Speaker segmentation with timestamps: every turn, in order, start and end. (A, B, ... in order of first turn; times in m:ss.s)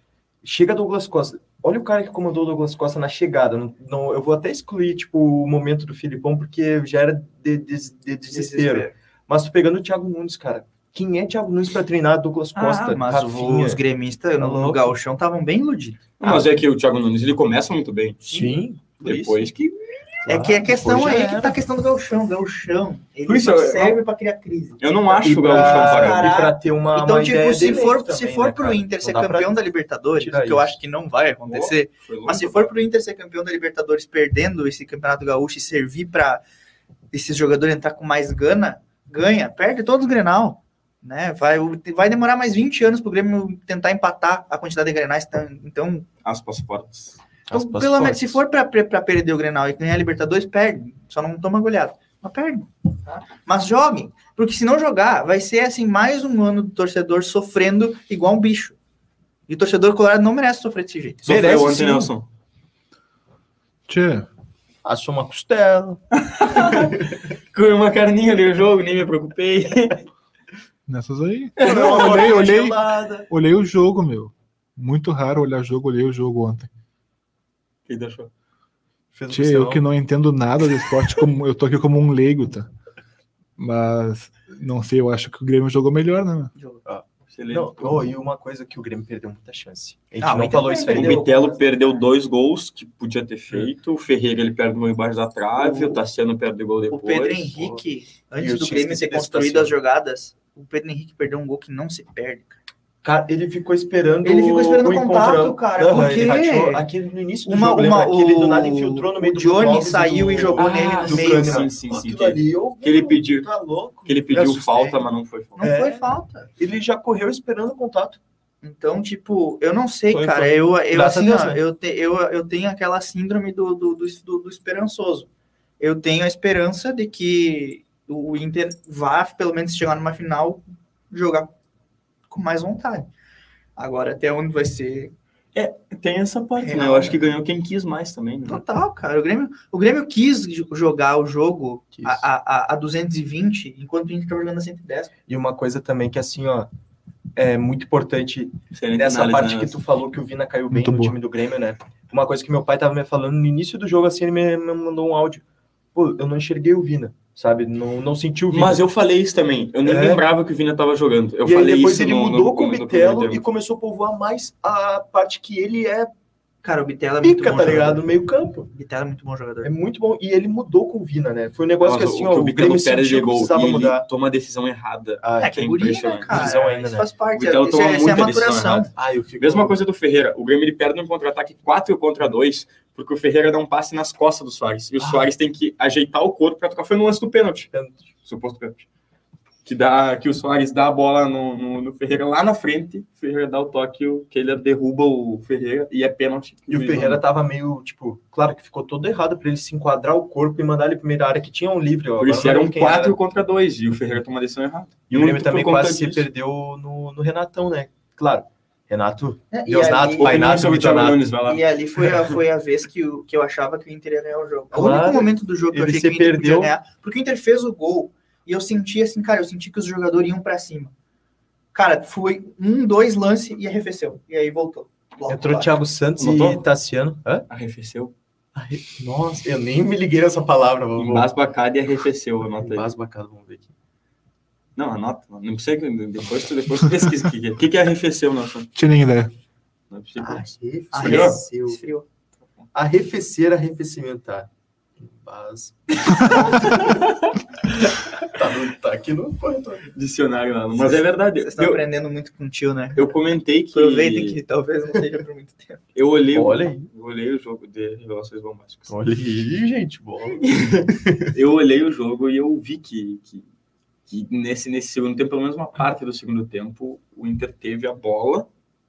0:00.4-0:13.8 A
0:08.3-0:08.9 B
0:12.5-0:16.0 B
0:14.4-0:14.9 A
0:16.2-0:18.3 C
0:16.2-0:16.5 A
0:18.3-0:19.5 A
0:19.0-0:19.8 C
0:20.2-0:21.6 A
0:20.2-0:36.4 B
0:23.2-0:24.0 C
0:24.8-0:26.3 C
0:25.2-0:29.6 A
0:30.2-0:30.8 A
0:31.4-0:32.7 C
0:37.1-0:46.1 B
0:46.2-0:47.2 C
0:47.5-0:48.4 A
0:47.5-0:58.8 B
0:59.5-1:01.2 B
1:01.2-1:02.1 A
1:01.2-1:02.2 C
1:03.9-1:04.3 D
1:04.8-1:07.2 A
1:06.1-1:10.0 C
1:10.9-1:16.7 D
1:11.6-1:12.4 C
1:11.6-1:13.3 A
1:17.9-1:18.3 C
1:19.1-1:19.8 A
1:19.3-1:22.7 D
1:23.6-1:26.5 D
1:26.5-1:26.8 B
1:26.8-1:31.2 A
1:27.3-1:28.1 C
1:30.2-1:32.0 B
1:30.9-1:37.5 C
1:35.6-1:36.0 A
1:36.9-1:42.6 B
1:37.6-1:37.8 A
1:38.4-1:39.7 A
1:43.0-1:55.0 A
1:44.2-1:46.9 B
1:47.4-1:51.7 B
1:50.6-1:53.5 C
1:54.0-1:55.6 C
1:55.6-1:56.5 B
1:55.6-1:56.0 A
1:56.6-1:58.2 A
1:58.6-2:05.3 B
2:00.1-2:01.6 A
2:05.8-2:11.5 B
2:12.3-2:13.1 B
2:13.8-2:15.1 B
2:15.5-2:18.6 C
2:16.6-2:17.3 B
2:18.5-2:25.1 B
2:21.9-2:22.2 A
2:25.3-2:26.7 A
2:27.3-2:35.4 A
2:28.7-2:29.8 C
2:30.7-2:31.1 D
2:35.9-2:38.8 A
2:38.5-2:43.4 C
2:39.8-2:40.2 A
2:41.4-2:46.1 A
2:46.6-2:48.0 B
2:47.2-2:48.7 A
2:48.7-2:49.7 B
2:49.6-2:54.0 A
2:51.8-2:56.5 C
2:55.2-2:55.6 A
2:55.4-2:58.9 B
2:56.3-2:57.1 A
2:57.4-3:07.7 C
2:59.0-2:59.8 A
3:05.0-3:05.3 A
3:07.7-3:08.0 A
3:08.2-3:08.8 C
3:09.6-3:17.2 C
3:16.7-3:23.2 A
3:22.2-3:26.3 C
3:25.1-3:31.2 A
3:29.5-3:30.5 B
3:30.2-3:32.3 C
3:31.4-3:40.9 B
3:34.7-3:36.7 A
3:41.7-3:45.7 B
3:45.3-3:47.4 A
3:46.2-3:46.6 C
3:47.5-3:48.1 C
3:48.5-3:51.3 A
3:51.0-3:52.9 C
3:52.6-3:53.7 A
3:54.8-3:58.7 C
3:58.7-3:59.3 D
3:59.9-4:01.4 C
4:00.2-4:01.8 A
4:00.9-4:02.0 B
4:02.7-4:07.1 A
4:06.3-4:07.4 C
4:08.0-4:09.9 A
4:09.9-4:11.8 C
4:11.4-4:13.1 B
4:13.0-4:14.4 C
4:13.7-4:15.8 B
4:15.9-4:18.9 C
4:16.3-4:16.9 A
4:18.9-4:21.3 A
4:20.4-4:23.4 C
4:24.1-4:28.5 C